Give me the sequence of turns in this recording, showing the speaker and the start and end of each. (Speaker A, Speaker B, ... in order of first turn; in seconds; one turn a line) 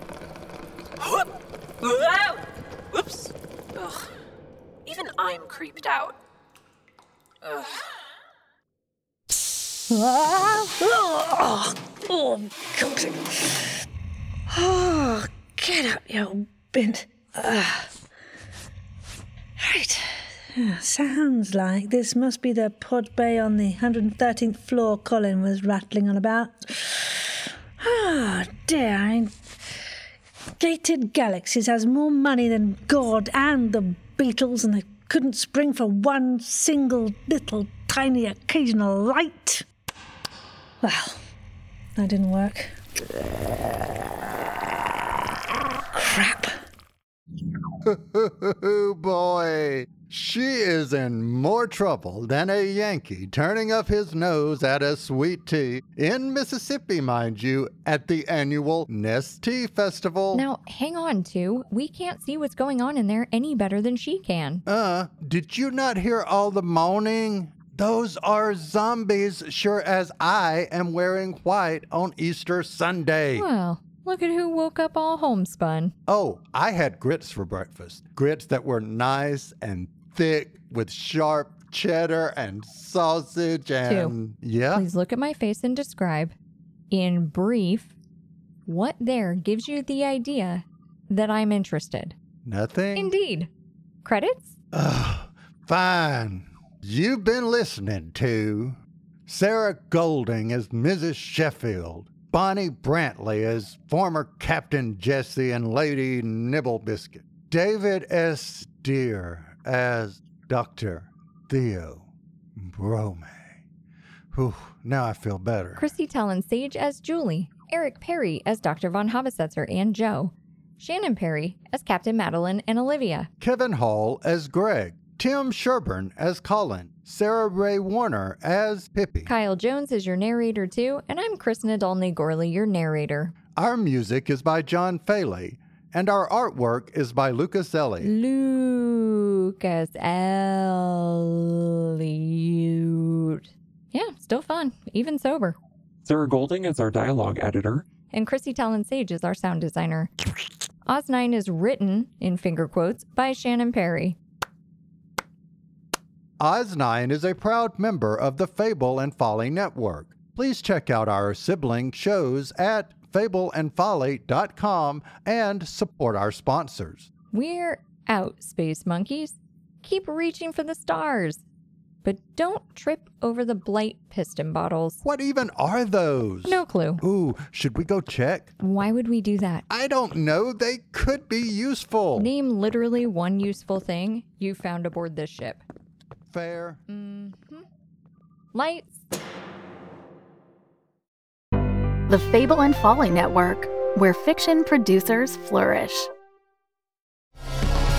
Speaker A: 1.0-1.3
Speaker A: 1.8-4.1
Speaker A: 4.8-6.2
Speaker A: 7.4-7.9
Speaker B: 9.9-13.8
Speaker B: 14.5-17.9
Speaker B: 19.6-29.4
Speaker B: 30.6-39.6
Speaker B: 40.8-41.2
Speaker B: 42.0-42.8
Speaker B: 45.9-46.6
Speaker C: 47.8-60.4
Speaker D: 60.3-64.6
Speaker C: 64.7-73.5
Speaker D: 73.3-75.9
Speaker C: 76.1-84.8
Speaker D: 83.8-84.2
Speaker D: 84.7-86.3
Speaker D: 86.9-87.9
Speaker D: 88.7-92.2
Speaker C: 92.4-93.1
Speaker D: 92.9-93.5
Speaker D: 94.0-94.5
Speaker C: 94.7-113.5
Speaker C: 114.3-115.9
Speaker D: 115.8-123.3
Speaker C: 123.4-129.3
Speaker D: 129.2-133.3
Speaker C: 133.5-138.1
Speaker D: 138.0-145.6
Speaker E: 146.0-148.0
Speaker D: 148.1-150.1
Speaker D: 150.9-154.2
Speaker C: 156.4-167.1
Speaker D: 167.3-171.4
Speaker D: 172.0-175.0
Speaker C: 175.0-178.5
Speaker D: 176.4-177.0
Speaker D: 178.6-179.6
Speaker C: 179.7-182.3
Speaker D: 182.1-185.6
Speaker C: 186.3-186.8
Speaker D: 186.9-187.6
Speaker D: 188.5-188.9
Speaker F: 192.1-196.1